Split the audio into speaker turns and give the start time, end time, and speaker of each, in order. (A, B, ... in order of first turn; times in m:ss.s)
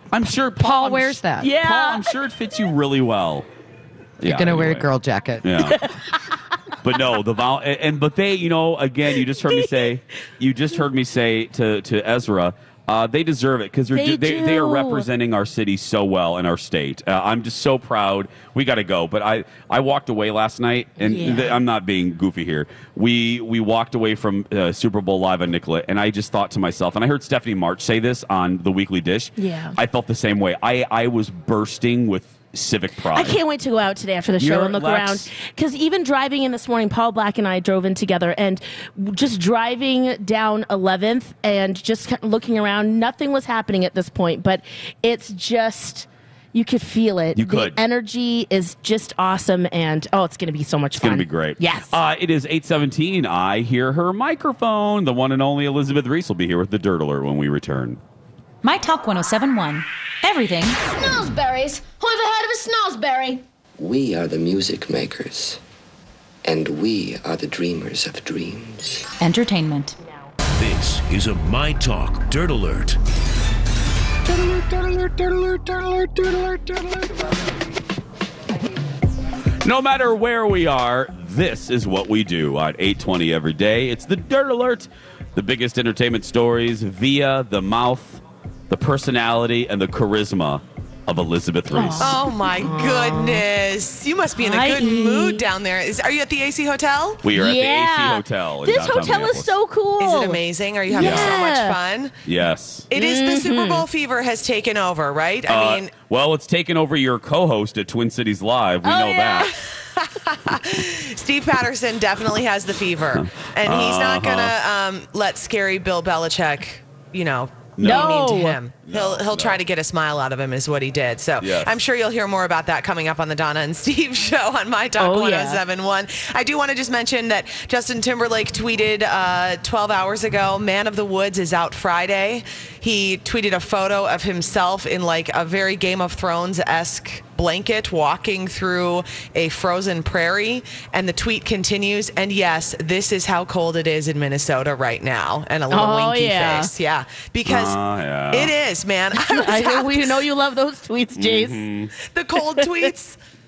0:00.1-0:03.5 A
0:00.6-0:01.5 B
0:01.4-0:02.1 C
0:04.2-0:04.9 A
0:04.2-0:05.5 B
0:05.4-0:05.8 A
0:06.8-0:33.4 A
0:13.9-0:15.1 C
0:21.0-0:21.6 C
0:29.4-0:29.8 C
0:33.1-0:52.0 C
0:34.4-0:35.3 A
0:47.4-0:47.8 A
0:51.0-0:58.0 A
0:58.6-1:00.8 D
1:01.0-1:03.4 E
1:03.8-1:05.6 F
1:06.4-1:09.1 F
1:09.2-1:10.0 D
1:10.5-1:13.0 G
1:19.6-1:32.2 A
1:31.7-1:33.4 C
1:32.0-1:37.2 H
1:34.4-1:35.4 C
1:37.2-1:39.6 A
1:37.3-1:41.8 C
1:40.0-1:42.2 H
1:41.0-1:41.4 A
1:42.2-1:42.9 A
1:42.9-1:45.9 H
1:42.9-1:43.8 C
1:45.5-1:49.5 A
1:48.8-1:49.5 C
1:49.4-2:27.8 H
1:53.1-1:54.5 A
1:57.8-1:58.3 A
1:57.8-1:58.6 C
1:58.8-1:59.6 A
2:01.4-2:01.8 A
2:05.0-2:05.6 C
2:25.7-2:26.7 C
2:27.5-2:28.5 A
2:28.3-2:30.2 H
2:29.2-2:31.6 C
2:31.2-2:31.9 A
2:32.1-2:33.2 H
2:32.6-2:32.8 C